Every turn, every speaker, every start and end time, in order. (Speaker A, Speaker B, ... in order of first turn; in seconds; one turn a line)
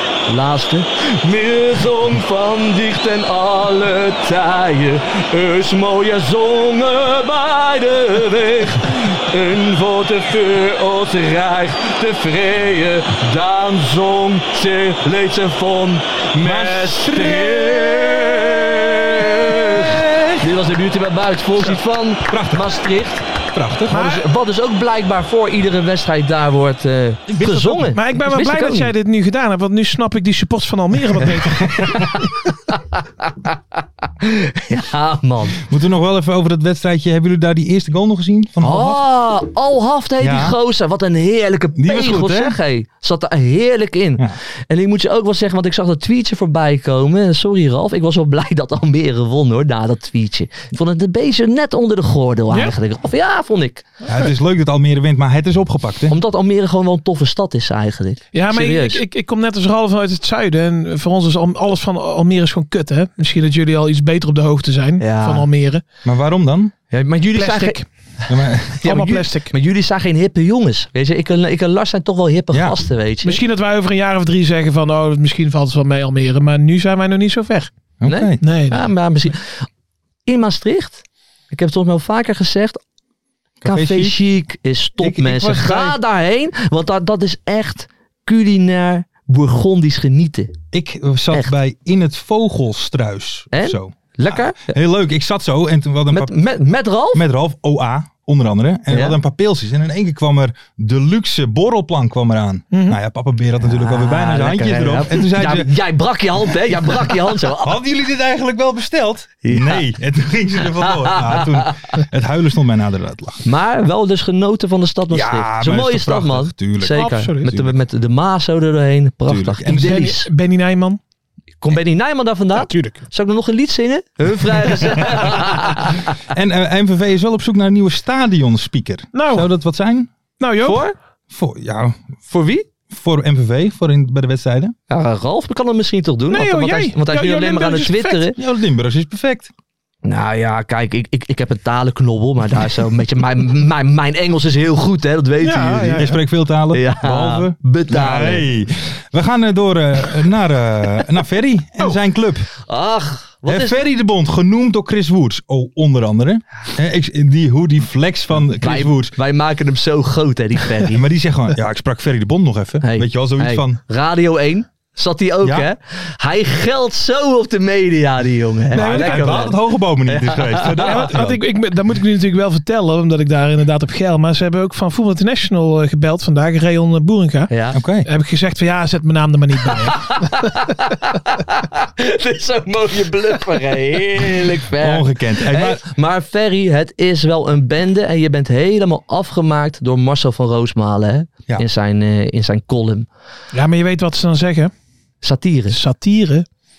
Speaker A: 0.3-23.2
Speaker B: 16.4-18.2
Speaker B: 19.5-20.5
Speaker B: 22.2-22.8
Speaker B: 23.4-24.0
Speaker A: 23.9-28.9
Speaker C: 23.9-24.3
Speaker B: 27.3-27.9
Speaker C: 27.9-32.0
Speaker B: 31.4-32.1
Speaker A: 31.8-32.2
Speaker A: 32.7-33.6
Speaker A: 34.2-35.6
Speaker B: 35.6-39.0
Speaker A: 38.6-53.8
Speaker B: 40.2-40.5
Speaker B: 41.8-42.6
Speaker C: 52.5-52.7
Speaker B: 54.0-56.1
Speaker A: 56.1-59.0
Speaker C: 58.3-65.8
Speaker A: 65.0-65.5
Speaker B: 66.0-66.7
Speaker A: 66.9-67.8
Speaker C: 67.3-67.9
Speaker B: 68.3-68.8
Speaker A: 68.8-73.4
Speaker C: 68.8-69.5
Speaker B: 72.5-72.8
Speaker C: 73.2-77.7
Speaker B: 78.0-78.4
Speaker A: 78.1-79.7
Speaker C: 78.4-78.9
Speaker A: 80.2-82.8
Speaker B: 83.6-84.2
Speaker A: 83.6-90.6
Speaker B: 85.0-86.0
Speaker B: 90.7-96.3
Speaker A: 93.5-94.7
Speaker A: 96.1-97.2
Speaker B: 97.1-105.7
Speaker A: 98.9-99.2
Speaker C: 102.7-103.0
Speaker A: 103.6-107.8
Speaker B: 107.0-113.4
Speaker A: 109.4-109.8
Speaker A: 110.8-111.7
Speaker A: 113.4-120.3
Speaker B: 115.1-117.8
Speaker C: 116.9-117.5
Speaker B: 119.3-120.1
Speaker C: 119.7-121.0
Speaker A: 121.6-126.0
Speaker C: 122.6-123.0
Speaker B: 125.0-125.3
Speaker B: 126.3-130.1
Speaker C: 129.1-129.5
Speaker C: 130.4-130.8
Speaker A: 130.6-130.9
Speaker B: 131.3-132.0
Speaker A: 132.3-132.7
Speaker B: 132.9-134.8
Speaker A: 134.9-138.4
Speaker C: 136.3-138.3
Speaker B: 138.3-139.5
Speaker A: 140.0-146.0
Speaker C: 145.4-146.2
Speaker B: 145.9-152.5
Speaker A: 146.7-148.4
Speaker A: 152.7-153.8
Speaker B: 153.4-159.2
Speaker A: 158.6-161.0
Speaker B: 160.8-163.8
Speaker A: 162.8-171.0
Speaker B: 165.4-165.7
Speaker C: 168.7-169.5
Speaker B: 168.7-171.4
Speaker C: 170.8-177.5
Speaker A: 177.5-177.8
Speaker B: 177.7-178.1
Speaker C: 178.0-180.6
Speaker A: 179.9-193.1
Speaker B: 184.8-185.8
Speaker C: 193.5-194.7
Speaker A: 195.2-195.8
Speaker C: 195.7-196.4